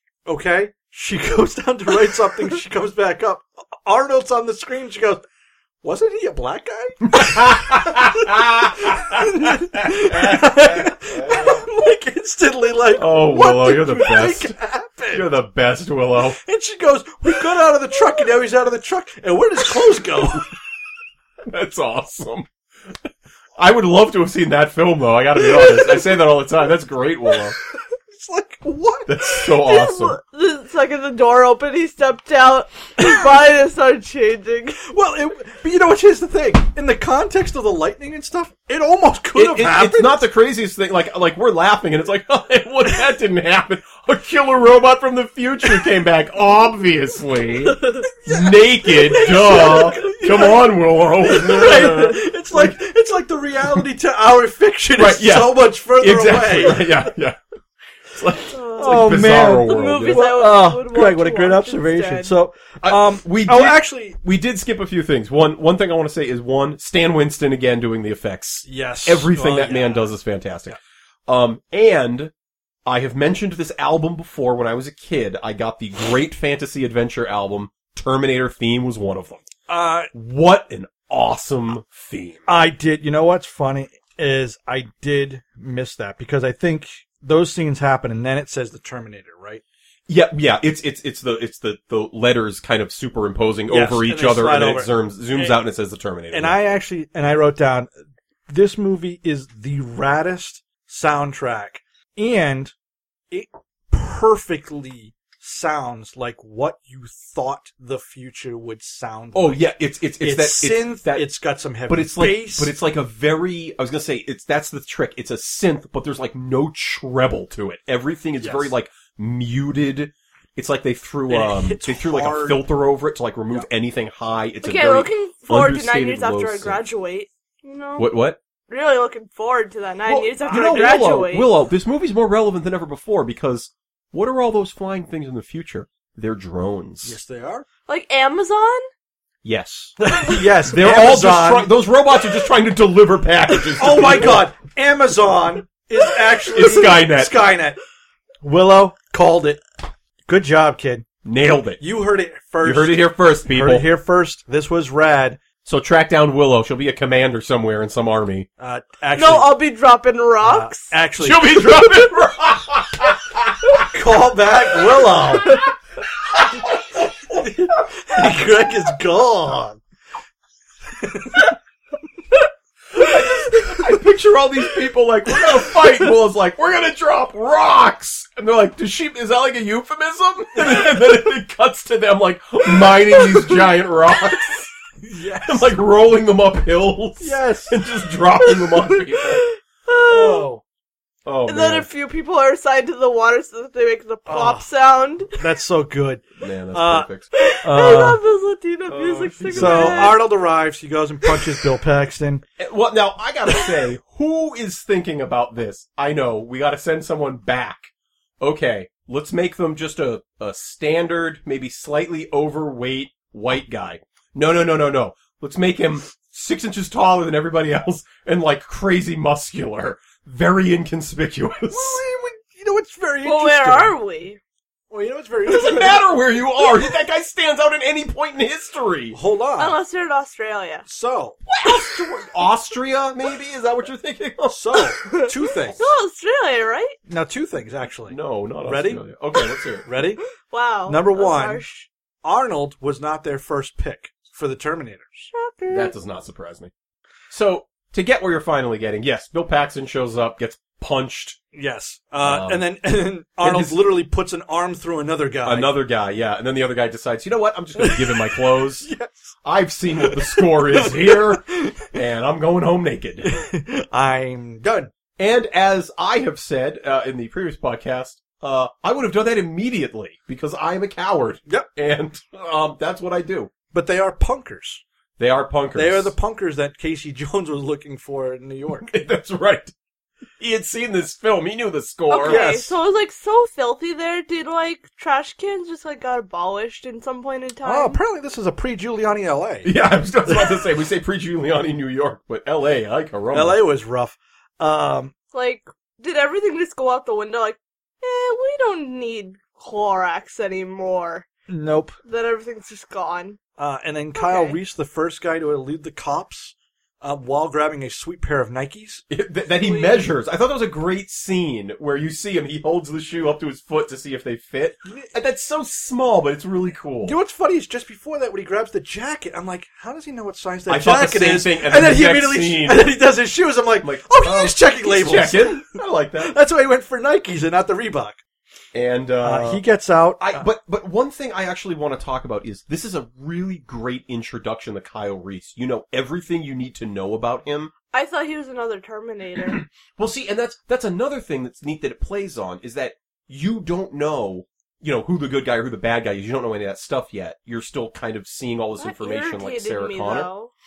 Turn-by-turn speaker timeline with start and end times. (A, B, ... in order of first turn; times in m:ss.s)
0:00.3-0:05.2 A
0:05.8-0:15.3 A
0:07.1-0:11.6 B
0:12.9-0:14.5 B
0:15.1-0:16.4 B
0:16.4-0:20.5 A
0:21.5-0:22.5 B
0:23.6-0:27.6 B
0:28.1-0:29.1 A
0:29.1-0:30.2 B
0:29.6-0:34.8 C
0:34.8-0:40.2 A
0:39.4-0:52.8 B
0:48.3-0:57.1 A
0:49.4-0:50.1 C
0:55.0-0:57.4 B
0:58.1-1:00.2 B
0:58.5-1:02.4 C
0:58.8-1:04.2 A
1:02.8-1:12.3 B
1:08.6-1:10.2 A
1:12.9-1:19.5 B
1:19.7-1:20.1 A
1:20.1-1:22.4 B
1:22.5-1:29.6 A
1:30.1-1:36.7 B
1:33.7-1:35.6 A
1:36.3-1:37.9 A
1:38.5-1:42.8 A
1:43.3-1:52.8 A
1:49.4-1:51.3 B
1:51.9-2:06.8 B
1:58.4-1:58.7 A
2:01.3-2:02.7 A
2:04.6-2:08.1 C
2:08.0-2:08.4 B
2:08.7-2:11.5 C
2:10.1-2:17.2 B
2:10.5-2:11.1 A
2:17.0-2:17.7 A
2:17.9-2:18.9 C
2:19.4-2:24.5 B
2:20.0-2:21.7 A
2:23.8-2:27.8 A
2:26.5-2:27.5 B
2:28.4-2:29.6 A
2:30.3-2:31.1 A
2:31.2-2:31.8 B
2:31.8-2:35.4 A
2:32.6-2:33.9 B
2:35.6-2:38.5 B
2:38.6-2:39.6 A
2:39.2-2:40.9 C
2:40.4-2:42.1 A
2:41.2-2:43.8 B
2:43.9-2:45.6 A
2:46.3-2:47.5 B
2:47.3-2:49.8 A
2:51.0-2:51.5 A
2:52.9-3:04.7 B
3:00.6-3:01.0 A
3:05.0-3:05.8 A
3:05.4-3:09.5 B
3:07.2-3:07.8 A
3:08.4-3:10.5 C
3:10.0-3:10.6 A
3:11.2-3:11.9 B
3:11.5-3:15.4 C
3:14.3-3:14.7 A
3:15.3-3:17.1 A
3:16.4-3:17.3 B
3:17.3-3:20.2 C
3:17.6-3:18.2 A
3:18.9-3:20.2 B
3:19.6-3:22.4 A
3:22.6-3:42.0 B
3:41.6-3:44.0 A
3:43.2-3:44.4 C
3:44.9-3:46.1 A
3:45.5-3:49.2 B
3:49.1-3:49.8 A
3:49.6-3:50.8 C
3:50.9-3:51.4 A
3:51.5-3:54.8 B
3:54.5-3:55.9 A
3:55.0-3:57.0 C
3:57.1-3:59.0 A
3:58.1-3:59.9 B
3:59.9-4:00.2 A
4:00.4-4:01.9 C
4:00.9-4:01.6 A
4:02.2-4:05.3 A
4:05.3-4:05.9 C
4:05.7-4:06.7 B
4:07.3-4:11.4 B
4:11.5-4:15.8 A
4:12.2-4:12.7 B
4:13.4-4:13.8 B
4:15.4-4:18.9 B
4:17.8-4:19.4 A
4:19.4-4:23.3 B
4:20.0-4:21.9 A
4:23.2-4:24.9 A
4:25.2-4:33.5 B
4:33.7-4:34.8 A
4:35.2-4:36.1 B
4:35.7-4:38.9 A
4:38.8-4:39.7 B
4:40.4-4:42.5 B
4:42.1-4:48.0 C
4:42.2-4:42.8 A
4:47.6-4:49.7 A
4:49.6-4:53.6 B
4:53.3-4:55.1 A
4:55.3-5:01.3 C
5:01.5-5:02.0 A
5:02.0-5:03.4 C
5:03.6-5:09.0 A
5:04.2-5:04.6 C
5:09.1-5:17.2 B
5:09.6-5:10.1 C
5:14.8-5:15.1 A
5:17.0-5:28.2 A
5:20.7-5:22.9 B
5:23.8-5:26.4 B
5:28.7-5:29.6 B
5:29.2-5:30.5 A
5:30.2-5:37.7 B
5:37.9-5:39.6 C
5:39.4-5:50.3 B
5:48.8-5:50.5 C